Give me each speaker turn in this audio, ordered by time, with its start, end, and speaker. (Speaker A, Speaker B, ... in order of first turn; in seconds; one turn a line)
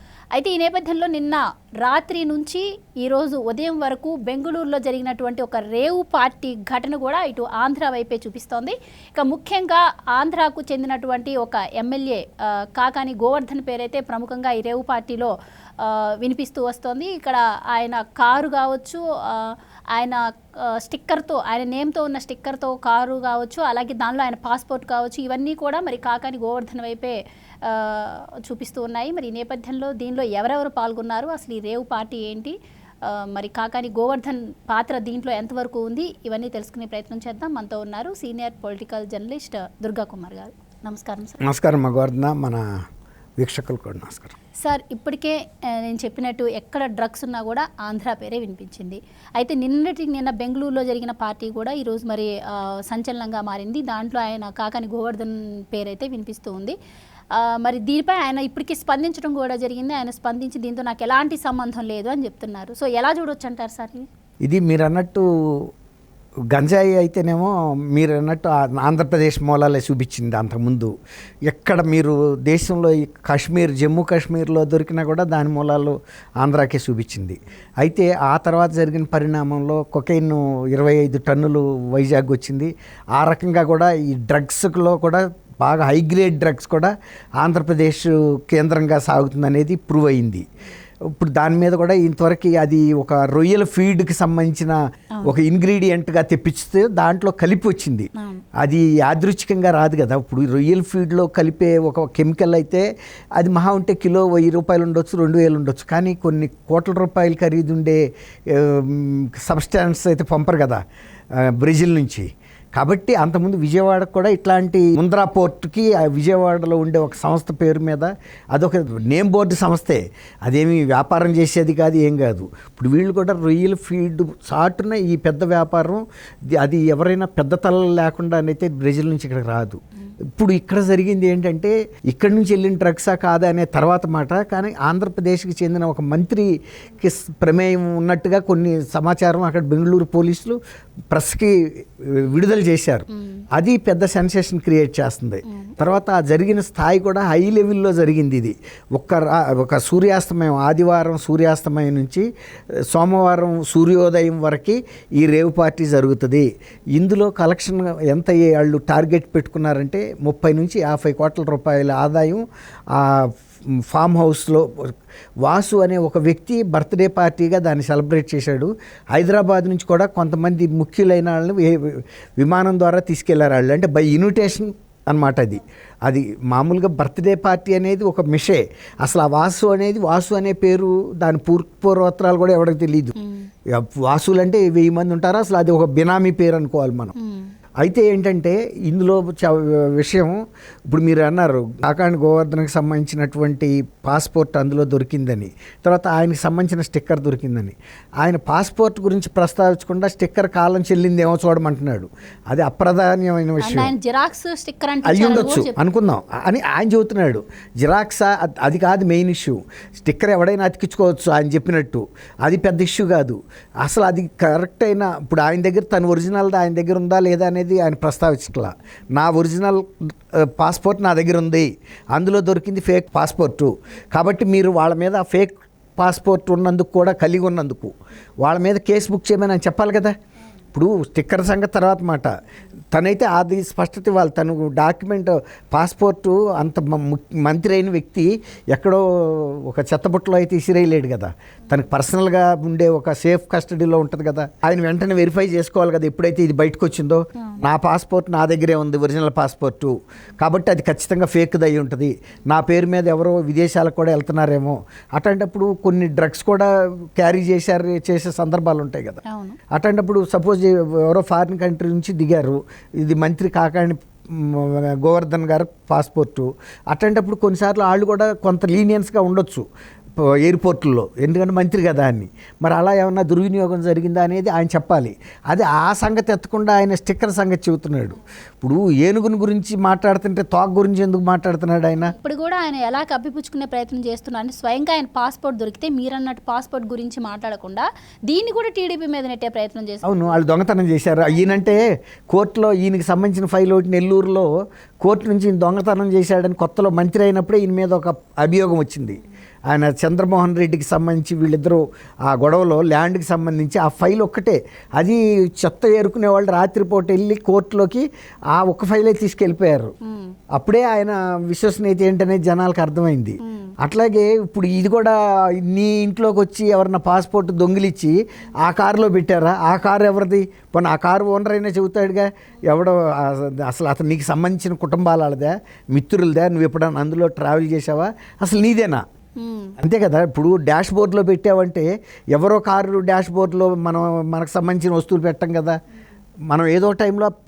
Speaker A: 0.3-41.4
Speaker B: 41.4-42.7
Speaker B: 43.4-44.4
Speaker A: 44.6-56.8
Speaker A: 57.3-64.1
Speaker B: 64.4-65.7
Speaker B: 66.5-70.9
Speaker B: 71.5-90.5
Speaker B: 91.0-110.8
Speaker A: 98.2-98.4
Speaker B: 111.3-140.6
Speaker B: 141.1-152.2
Speaker A: 143.1-143.4
Speaker A: 145.4-145.7
Speaker B: 152.9-164.9
Speaker B: 165.4-183.1
Speaker A: 183.2-183.5
Speaker B: 183.7-187.1
Speaker A: 187.2-187.5
Speaker B: 187.8-190.4
Speaker B: 190.9-203.9
Speaker A: 203.6-205.8
Speaker B: 205.0-230.2
Speaker B: 230.7-232.3
Speaker B: 232.9-259.2
Speaker A: 259.2-259.6
Speaker B: 259.7-282.1
Speaker A: 282.1-290.1
Speaker B: 290.0-294.5
Speaker B: 295.0-309.9
Speaker A: 310.0-310.4
Speaker B: 310.5-329.0
Speaker A: 313.4-313.7
Speaker A: 329.4-329.8
Speaker B: 329.8-335.8
Speaker B: 336.5-337.3